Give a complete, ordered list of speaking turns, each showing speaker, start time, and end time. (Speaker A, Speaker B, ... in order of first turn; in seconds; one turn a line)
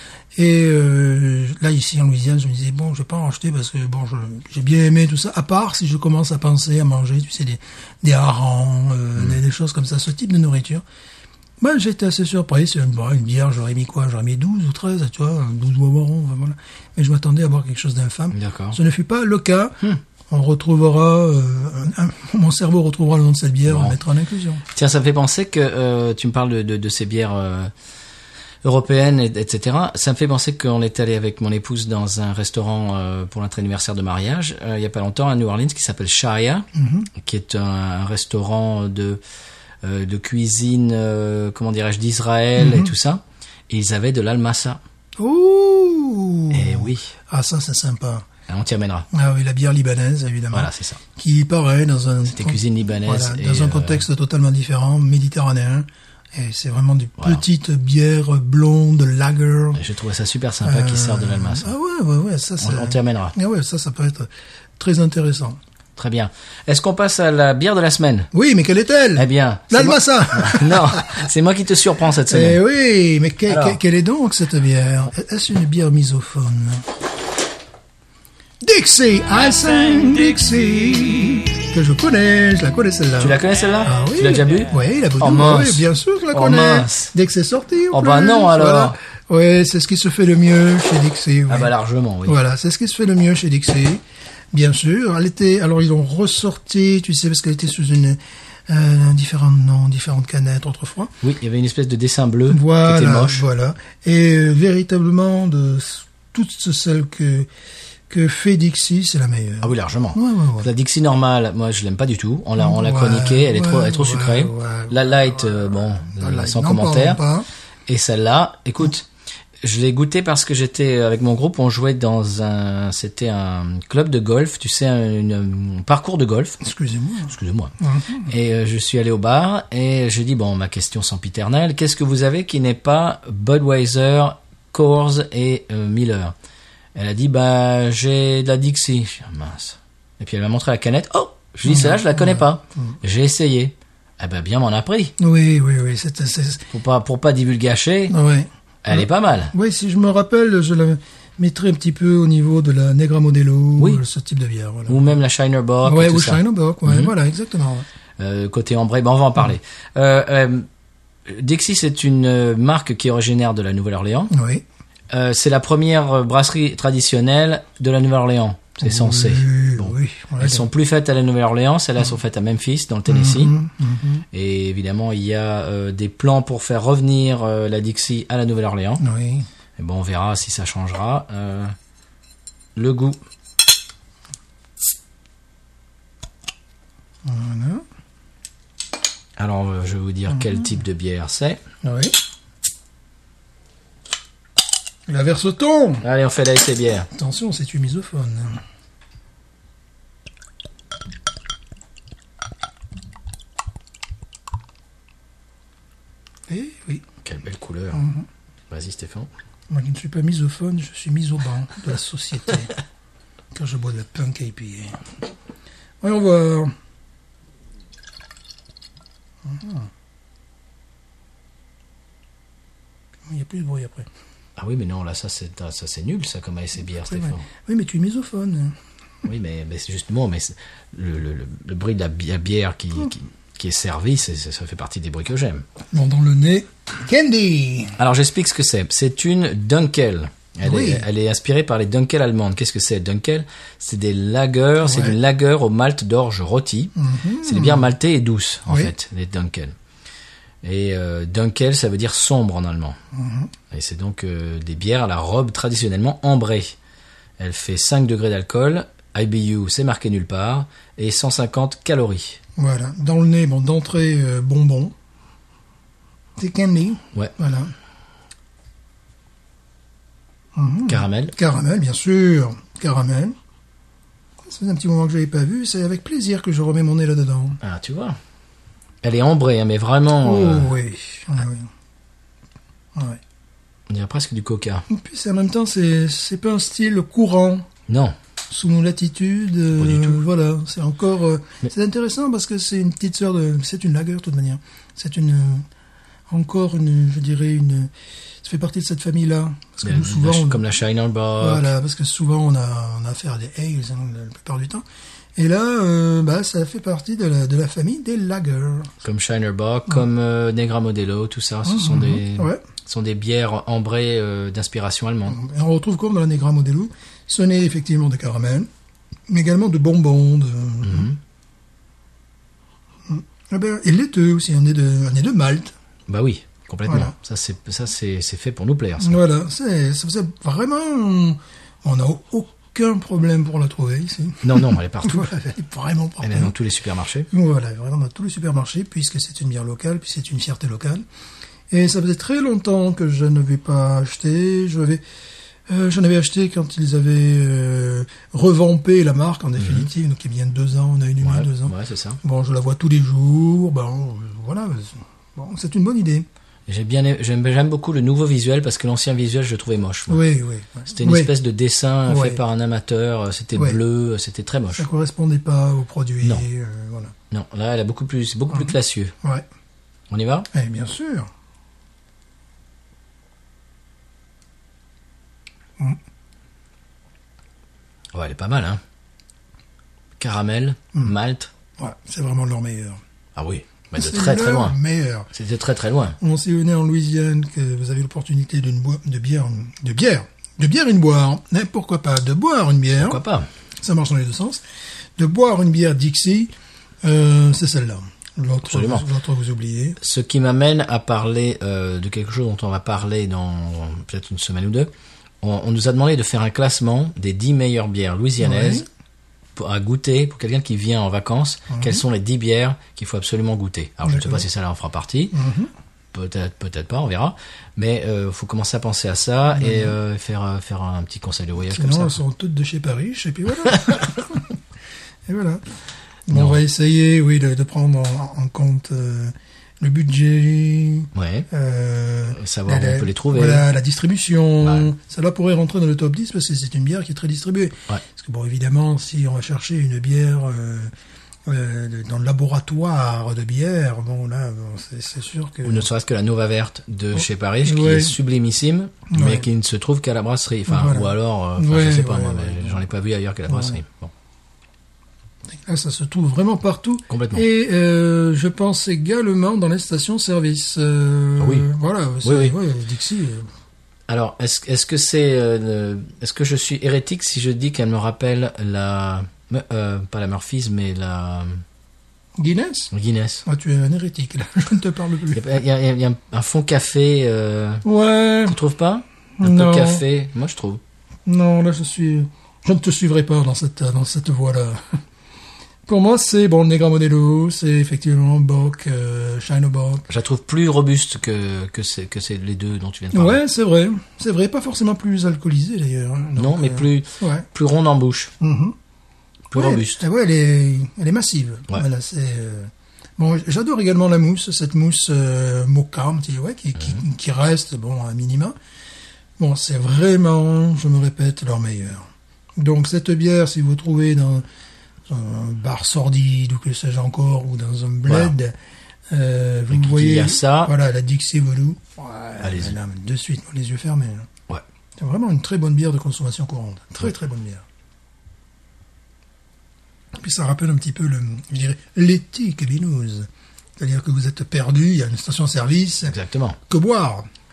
Speaker A: 0.3-10.8
Speaker A: 11.6-24.6
Speaker B: 18.3-18.8
Speaker B: 23.7-24.0
Speaker B: 24.7-27.7
Speaker B: 28.6-39.2
Speaker A: 36.8-37.1
Speaker B: 39.8-44.8
Speaker A: 42.6-42.9
Speaker A: 45.2-48.3
Speaker B: 46.5-47.1
Speaker B: 48.5-49.1
Speaker A: 49.1-59.8
Speaker B: 50.5-51.0
Speaker B: 52.3-54.0
Speaker B: 59.8-61.7
Speaker A: 60.6-65.6
Speaker B: 62.6-63.4
Speaker B: 66.0-68.3
Speaker A: 68.3-71.2
Speaker B: 69.2-72.6
Speaker A: 72.3-76.8
Speaker B: 73.5-73.8
Speaker A: 78.6-91.7
Speaker B: 83.2-87.1
Speaker B: 87.9-89.0
Speaker B: 91.5-92.4
Speaker A: 92.2-101.1
Speaker B: 101.2-103.5
Speaker A: 102.5-107.5
Speaker A: 108.1-110.7
Speaker B: 109.6-117.2
Speaker A: 112.6-117.5
Speaker B: 117.9-119.1
Speaker B: 119.6-126.6
Speaker A: 126.6-128.3
Speaker B: 127.3-127.7
Speaker B: 128.3-136.3
Speaker B: 137.0-145.1
Speaker A: 141.7-143.0
Speaker A: 145.2-146.7
Speaker B: 146.7-148.2
Speaker A: 148.1-155.0
Speaker B: 148.8-149.5
Speaker B: 153.8-154.0
Speaker B: 154.9-157.1
Speaker A: 155.8-157.9
Speaker B: 158.2-160.7
Speaker B: 161.3-164.3
Speaker A: 164.3-164.7
Speaker B: 165.1-173.6
Speaker A: 168.8-170.7
Speaker A: 173.1-174.2
Speaker B: 174.3-179.0
Speaker A: 179.0-179.5
Speaker B: 179.8-181.8
Speaker B: 182.8-183.2
Speaker A: 187.2-187.8
Speaker B: 189.4-191.6
Speaker A: 190.3-190.6
Speaker A: 191.8-192.2
Speaker A: 195.1-196.0
Speaker B: 196.0-197.1
Speaker A: 197.1-198.6
Speaker A: 206.5-207.0
Speaker B: 207.2-208.0
Speaker A: 207.9-208.3
Speaker B: 208.7-209.3
Speaker A: 209.7-212.7
Speaker A: 213.5-215.1
Speaker A: 216.0-216.7
Speaker A: 219.4-219.9
Speaker A: 223.3-224.1
Speaker B: 224.6-227.5
Speaker A: 227.0-228.8
Speaker B: 229.2-235.7
Speaker A: 235.9-238.0
Speaker B: 238.0-249.8
Speaker A: 240.6-241.1
Speaker A: 244.8-245.2
Speaker A: 247.0-247.9
Speaker A: 248.7-248.9
Speaker B: 250.6-253.0
Speaker A: 253.1-253.5
Speaker B: 253.7-256.8
Speaker B: 257.4-262.4
Speaker A: 262.6-264.9
Speaker A: 266.4-267.7
Speaker A: 270.6-273.4
Speaker B: 270.9-271.3
Speaker A: 274.4-277.6
Speaker B: 277.6-278.2
Speaker B: 279.0-280.7
Speaker A: 280.2-281.7
Speaker A: 282.9-283.2
Speaker B: 283.9-284.9
Speaker A: 284.9-287.7
Speaker B: 287.9-288.1
Speaker A: 288.5-295.7
Speaker B: 289.8-290.2
Speaker A: 296.3-297.9
Speaker A: 298.4-300.6
Speaker B: 299.8-301.7
Speaker A: 301.4-304.8
Speaker A: 305.4-308.9
Speaker B: 309.0-315.4
Speaker A: 311.7-312.6
Speaker A: 315.3-318.7
Speaker A: 319.3-321.1
Speaker B: 320.8-321.2
Speaker A: 323.1-325.7
Speaker B: 326.1-329.2
Speaker A: 326.9-327.1
Speaker A: 329.0-336.6
Speaker B: 334.4-335.3
Speaker B: 336.2-337.3
Speaker A: 337.3-341.1
Speaker A: 341.7-345.0
Speaker A: 345.7-356.3
Speaker B: 349.6-349.9
Speaker B: 351.2-352.2
Speaker B: 356.7-360.2
Speaker A: 360.1-361.3
Speaker B: 360.9-364.9
Speaker A: 362.1-362.4
Speaker A: 364.8-367.1
Speaker B: 367.3-369.1
Speaker B: 370.1-370.5
Speaker A: 370.5-371.3
Speaker B: 378.1-378.8
Speaker B: 380.2-381.5
Speaker A: 381.8-383.0
Speaker B: 383.4-384.8
Speaker A: 384.0-385.3
Speaker B: 385.3-386.2
Speaker A: 386.2-393.2
Speaker B: 393.0-393.5
Speaker A: 393.8-394.6
Speaker A: 395.2-396.5
Speaker A: 397.0-400.0
Speaker B: 398.6-399.1
Speaker B: 400.0-408.9
Speaker A: 408.4-408.9
Speaker B: 409.6-415.4
Speaker A: 411.7-412.0
Speaker A: 414.1-414.4
Speaker A: 415.3-415.7
Speaker B: 416.1-422.2
Speaker A: 419.5-420.0
Speaker A: 421.6-424.6
Speaker A: 425.3-425.6
Speaker A: 426.3-440.9
Speaker B: 426.3-426.6
Speaker B: 431.1-431.5
Speaker B: 432.4-433.7
Speaker B: 434.6-434.9
Speaker A: 441.5-445.9
Speaker B: 445.6-454.1
Speaker A: 447.2-448.2
Speaker A: 449.1-449.5
Speaker A: 450.7-452.8
Speaker A: 453.5-453.8
Speaker A: 455.6-463.5
Speaker B: 457.1-457.4
Speaker B: 461.4-461.7
Speaker B: 462.2-462.6
Speaker B: 464.1-471.6
Speaker A: 472.4-472.9
Speaker B: 472.9-473.4
Speaker A: 473.4-475.4
Speaker B: 475.3-477.9
Speaker A: 477.8-478.6
Speaker B: 478.5-480.8
Speaker A: 479.4-480.0
Speaker A: 481.3-485.0
Speaker A: 485.9-490.1
Speaker B: 490.1-493.4
Speaker A: 493.1-497.5
Speaker B: 496.4-498.3
Speaker A: 498.4-498.8
Speaker B: 499.5-500.0
Speaker A: 499.5-508.6
Speaker A: 509.4-514.5
Speaker A: 515.1-518.5
Speaker B: 518.1-518.3
Speaker A: 519.1-524.3
Speaker B: 519.7-520.7
Speaker B: 522.4-522.8
Speaker A: 525.0-527.6
Speaker A: 530.1-537.3
Speaker B: 536.1-536.6